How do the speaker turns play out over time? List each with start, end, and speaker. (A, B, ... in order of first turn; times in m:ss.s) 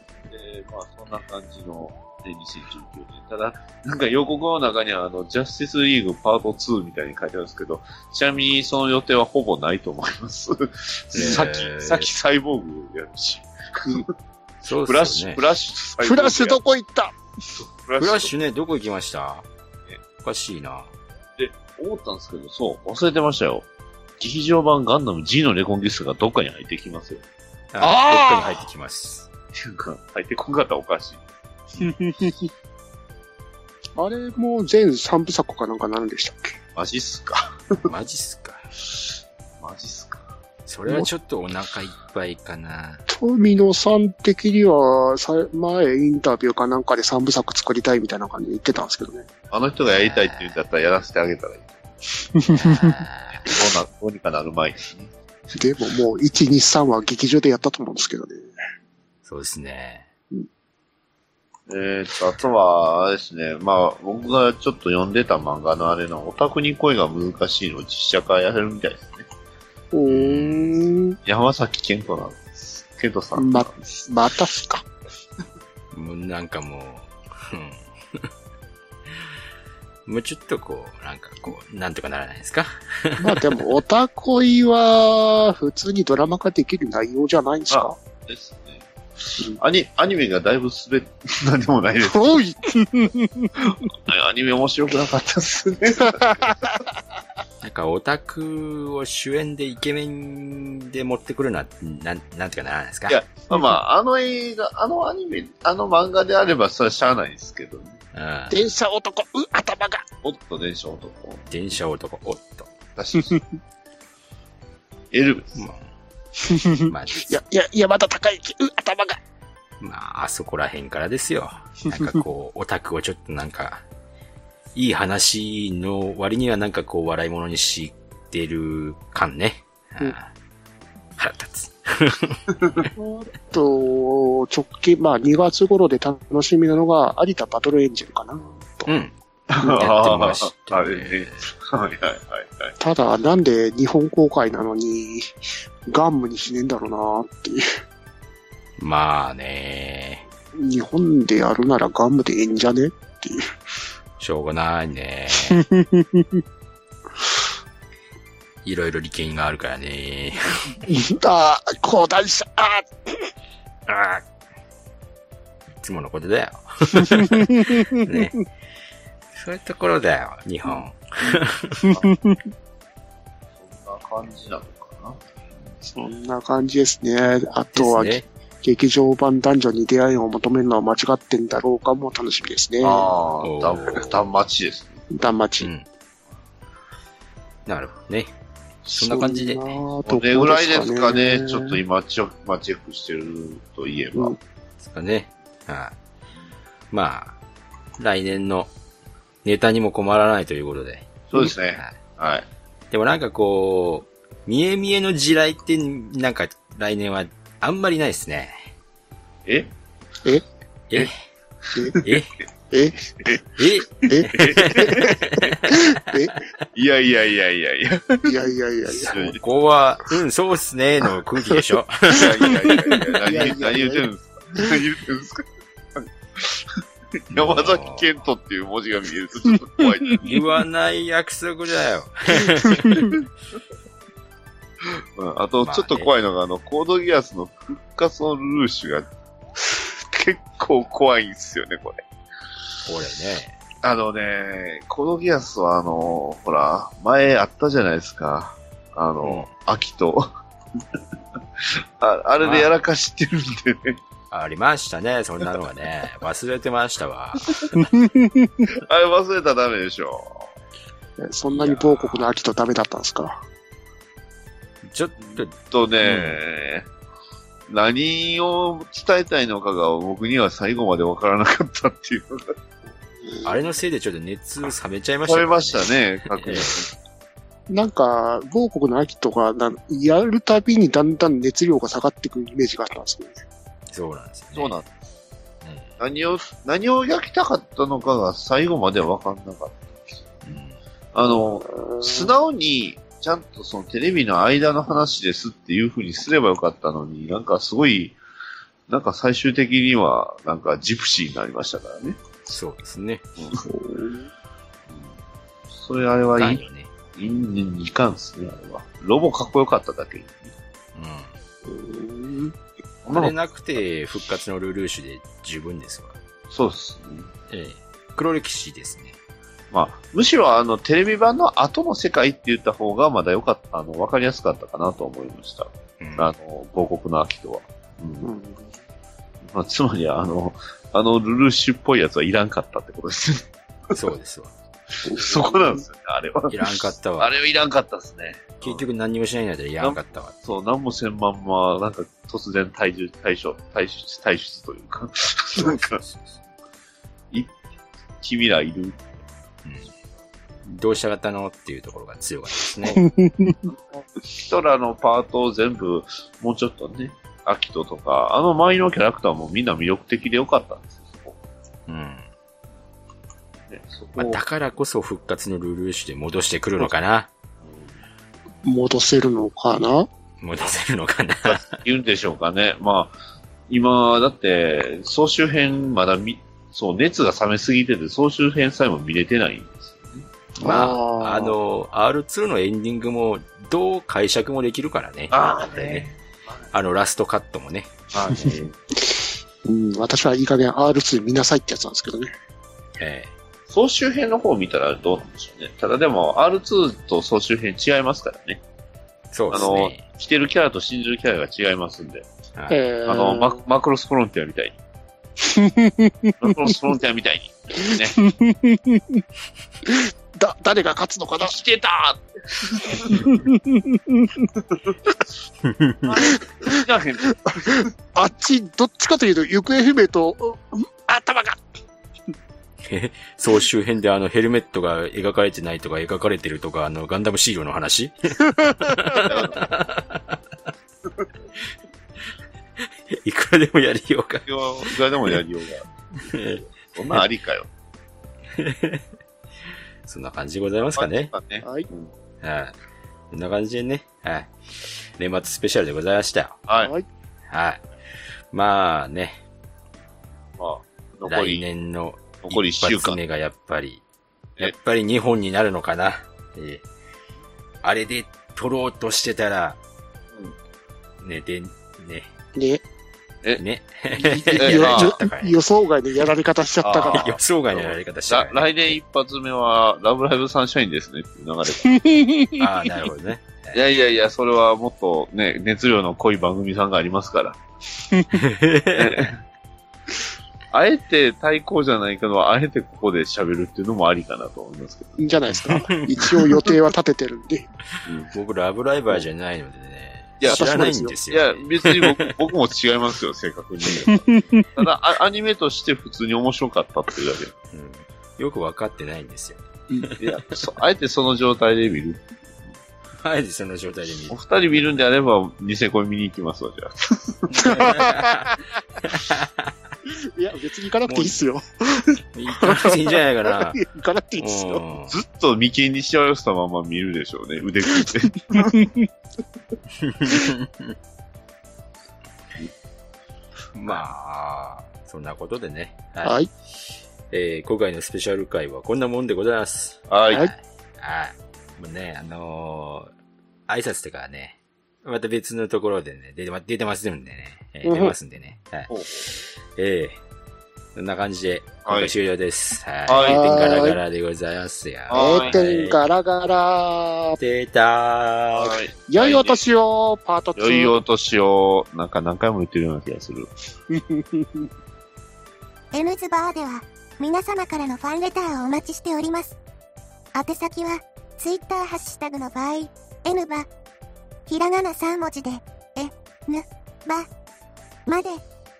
0:00.3-0:14.1 A
0:11.1-0:12.1 B
0:14.6-0:15.4 B
0:14.8-0:16.6 A
0:16.0-0:17.1 C
0:17.8-0:18.3 A
0:18.0-0:19.4 B
0:20.2-0:20.9 B
0:21.4-0:23.6 A
0:24.2-0:27.2 A
0:27.7-0:29.3 B
0:27.8-0:28.6 C
0:29.6-0:31.3 A
0:31.8-0:32.5 C
0:34.0-0:36.6 C
0:36.8-0:37.9 A
0:37.8-0:38.6 B
0:39.6-0:40.3 A
0:40.7-0:43.0 B
0:43.1-0:49.3 C
0:49.5-0:51.8 A
0:50.0-0:50.5 B
0:52.4-0:53.5 C
0:52.5-0:53.5 B
0:53.4-0:55.1 A
0:55.6-0:58.4 C
0:59.2-1:00.1 B
1:01.7-1:09.3 A
1:09.9-1:11.2 C
1:10.1-1:10.8 B
1:11.2-1:13.7 A
1:13.4-1:14.8 C
1:15.9-1:18.3 B
1:20.0-1:23.4 B
1:23.2-1:28.0 C
1:27.7-1:32.4 A
1:32.0-1:33.7 C
1:33.8-1:36.4 A
1:36.1-1:36.7 C
1:37.6-1:43.2 B
1:43.1-1:48.0 A
1:48.1-1:48.6 B
1:48.5-1:50.0 C
1:50.2-1:51.4 A
1:51.5-1:52.7 B
1:53.0-1:53.4 A
1:55.1-1:55.6 A
1:55.6-1:55.9 B
1:56.4-1:59.2 C
1:56.9-1:57.3 B
1:59.8-2:03.8 B
2:04.7-2:10.3 B
2:11.2-2:12.9 B
2:13.0-2:18.9 C
2:18.9-2:21.5 B
2:19.5-2:22.8 A
2:22.8-2:25.3 C
2:25.9-2:27.6 C
2:28.8-2:30.2 B
2:30.5-2:33.5 C
2:34.2-2:35.6 B
2:35.5-2:36.4 C
2:38.6-2:40.8 B
2:40.8-2:43.2 C
2:43.9-2:44.2 B
2:45.8-2:48.3 B
2:47.0-2:48.2 C
2:49.4-2:51.8 B
2:51.2-2:52.4 C
2:53.6-2:55.2 A
2:55.8-3:03.1 C
2:57.7-2:58.2 B
3:02.8-3:05.0 A
3:03.4-3:04.2 B
3:05.1-3:05.7 C
3:05.6-3:05.8 B
3:07.6-3:08.3 B
3:08.9-3:09.7 B
3:08.9-3:11.8 C
3:10.0-3:14.4 A
3:14.8-3:15.9 B
3:16.9-3:17.3 B
3:18.0-3:18.7 B
3:19.4-3:21.1 B
3:21.3-3:22.4 A
3:22.9-3:28.6 B
3:29.4-3:29.7 A
3:31.6-3:32.1 A
3:31.8-3:32.0 C
3:32.0-3:32.3 B
3:32.7-3:33.4 C
3:33.6-3:36.0 B
3:34.1-3:36.4 C
3:34.2-3:35.4 A
3:36.7-3:38.4 A
3:38.2-3:39.3 C
3:39.0-3:42.9 B
3:39.0-3:39.4 A
3:42.1-3:50.4 A
3:42.4-3:44.1 C
3:47.3-3:48.1 B
3:50.2-3:53.2 B
3:55.1-3:59.1 A
3:55.6-3:56.1 B
4:00.1-4:02.0 A
4:02.8-4:03.6 B
4:03.8-4:10.3 A
4:09.2-4:09.5 B
4:11.6-4:14.0 A
4:12.4-4:12.7 B
4:14.3-4:17.8 B
4:17.8-4:18.5 C
4:18.8-4:20.5 A
4:21.2-4:23.4 C
4:21.5-4:22.3 B
4:24.8-4:26.4 B
4:25.2-4:26.9 A
4:27.7-4:32.5 A
4:33.4-4:36.9 B
4:35.2-4:36.9 A
4:37.7-4:43.4 C
4:43.9-4:44.8 B
4:44.5-4:44.9 A
4:45.6-4:45.9 B
4:46.0-4:50.4 A
4:50.4-4:50.8 B
4:51.1-4:58.2 A
4:51.7-4:52.3 C
4:58.9-5:02.2 A
5:02.5-5:03.2 B
5:03.6-5:04.3 C
5:05.7-5:10.5 A
5:06.4-5:06.9 B
5:10.9-5:11.3 B
5:11.6-5:12.5 C
5:13.0-5:13.3 A
5:13.1-5:16.2 B
5:16.5-5:17.3 A
5:17.5-5:19.2 B
5:19.7-5:28.3 A
5:26.0-5:26.3 B
5:28.2-5:28.7 C
5:29.5-5:33.5 A
5:33.9-5:34.5 B
5:35.0-5:38.8 A
5:35.0-5:35.8 C
5:36.5-5:37.3 B
5:38.6-5:40.4 B
5:39.8-5:46.0 A
5:45.5-5:46.4 B
5:47.3-5:47.6 A
5:48.2-5:49.0 A
5:49.6-5:49.9 B
5:50.7-5:53.1 B
5:52.8-5:53.6 C
5:53.7-6:01.4 A
6:01.9-6:02.3 B
6:03.7-6:04.4 A
6:04.2-6:07.3 B
6:07.6-6:07.9 A
6:08.6-6:10.1 C
6:10.4-6:11.8 B
6:11.4-6:13.2 A
6:13.7-6:20.2 A
6:20.6-6:26.1 B
6:20.6-6:21.6 C
6:25.3-6:26.1 A
6:26.7-6:28.6 B
6:28.1-6:28.7 A
6:29.0-6:32.3 C
6:33.0-6:33.3 B
6:33.7-6:38.6 A
6:39.3-6:40.0 B
6:39.5-6:42.3 A
6:42.7-6:43.6 C
6:43.0-6:44.8 A
6:45.4-6:46.7 C
6:46.4-6:48.2 A
6:47.8-6:49.2 C
6:49.8-6:51.6 C
6:51.4-6:53.2 A
6:53.0-6:54.5 C
6:55.6-6:56.0 B
6:56.0-6:57.9 A
6:56.3-6:56.8 C
6:57.5-7:01.6 C
7:02.9-7:10.4 B
7:09.2-7:09.7 A
7:13.1-7:14.5 B
7:14.5-7:15.8 A
7:16.2-7:17.2 B
7:16.8-7:17.7 A
7:18.6-7:19.0 B
7:20.0-7:21.3 B
7:21.0-7:22.1 A
7:22.4-7:22.7 B
7:23.3-7:24.5 B
7:25.2-7:26.6 B
7:26.7-7:26.9 A
7:26.8-7:27.1 C
7:27.5-7:27.8 B
7:28.5-7:29.4 B
7:30.6-7:31.6 A
7:31.2-7:34.0 B
7:32.4-7:33.2 A
7:34.6-7:36.8 B
7:37.8-7:39.8 B
7:41.2-7:42.3 B
7:42.6-7:42.8 C
7:43.6-7:45.5 B
7:44.2-7:47.3 C
7:44.6-7:45.2 A
7:46.8-7:52.0 A
7:47.1-7:49.0 B
7:51.8-7:52.6 C
7:52.6-7:53.8 B
7:53.7-7:57.6 A
7:58.3-7:59.3 B
7:58.9-7:59.3 A
8:00.7-8:05.3 A
8:05.2-8:07.7 C
8:05.5-8:06.5 B
8:08.0-8:08.3 A
8:08.3-8:12.3 B
8:10.4-8:17.5 A
8:10.5-8:11.1 C
8:14.0-8:14.6 C
8:17.7-8:20.4 B
8:20.2-8:22.2 A
8:23.2-8:24.4 B
8:24.3-8:27.7 A
8:27.5-8:29.7 B
8:27.6-8:28.4 C
8:30.3-8:34.8 C
8:31.1-8:31.4 B
8:32.3-8:33.8 B
8:34.4-8:35.2 B
8:35.1-8:38.7 A
8:38.0-8:39.1 C
8:40.0-8:40.9 B
8:43.7-8:46.4 B
8:46.2-8:46.5 C
8:47.3-8:53.1 B
8:50.1-8:50.5 A
8:53.7-9:00.2 B
8:57.8-8:58.1 C
8:58.9-8:59.3 A
9:00.9-9:06.0 B
9:01.8-9:02.1 A
9:03.1-9:03.7 A
9:03.2-9:04.0 C
9:05.1-9:05.6 A
9:05.1-9:07.4 C
9:07.4-9:08.8 B
9:08.5-9:09.6 A
9:09.1-9:10.9 C
9:10.6-9:13.5 A
9:13.9-9:14.7 C
9:15.9-9:19.6 D
9:20.3-9:23.7 D
9:24.5-9:27.3 D
9:28.0-9:28.4 D